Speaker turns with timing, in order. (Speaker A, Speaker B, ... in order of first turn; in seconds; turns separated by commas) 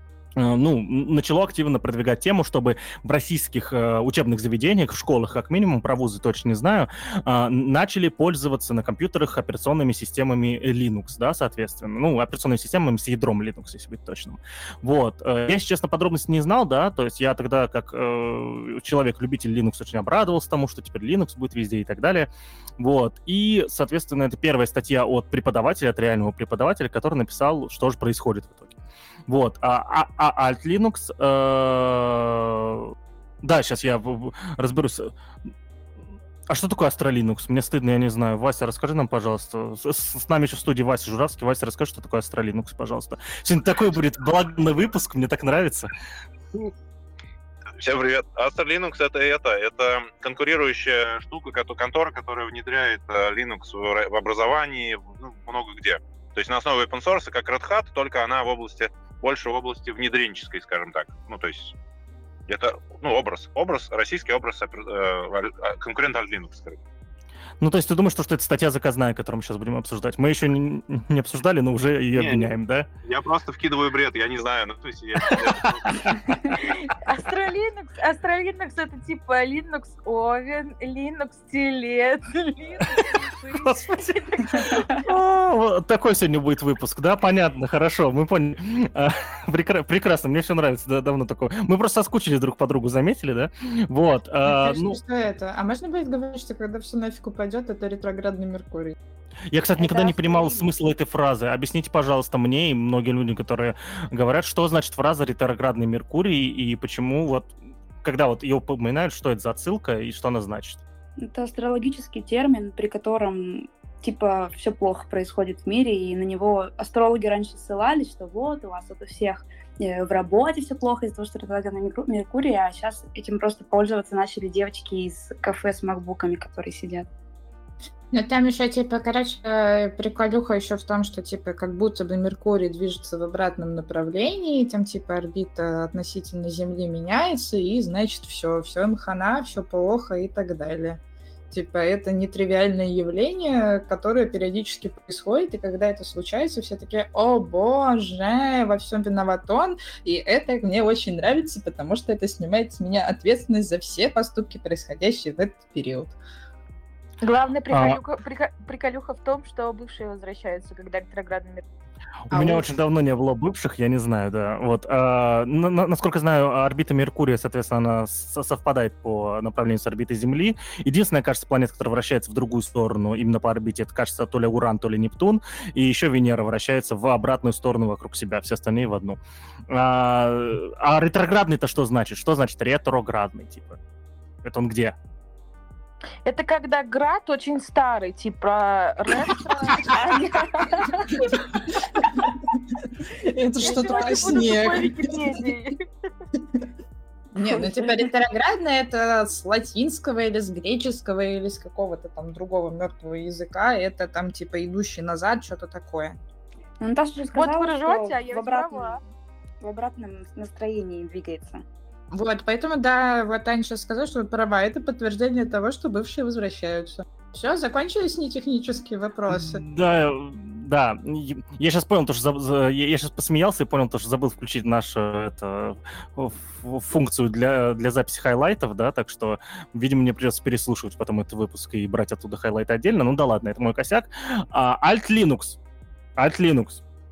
Speaker A: 0.4-28.8, Speaker A: 29.3-35.1, Speaker A: 36.5-45.9, Speaker B: 47.8-61.8, Speaker B: 62.5-66.8, Speaker A: 67.6-72.9, Speaker B: 72.1-76.1, Speaker A: 75.2-76.5, Speaker C: 76.6-84.8, Speaker A: 83.6-95.0, Speaker D: 84.7-85.0, Speaker E: 94.4-99.0, Speaker A: 99.5-110.8, Speaker D: 99.8-100.7, Speaker D: 111.2-127.1, Speaker E: 128.1-156.2, Speaker C: 157.2-161.6, Speaker A: 157.7-158.0, Speaker A: 162.3-183.8, Speaker C: 162.3-162.6, Speaker A: 184.4-185.0, Speaker C: 186.2-190.4, Speaker D: 189.8-191.3, Speaker E: 193.1-195.4, Speaker D: 193.6-194.5, Speaker C: 193.6-195.8, Speaker E: 197.3-206.2, Speaker D: 197.4-198.1, Speaker D: 206.8-209.0, Speaker C: 207.3-209.0, Speaker D: 209.6-211.6, Speaker E: 212.1-219.6, Speaker A: 219.3-235.6, Speaker A: 236.2-236.8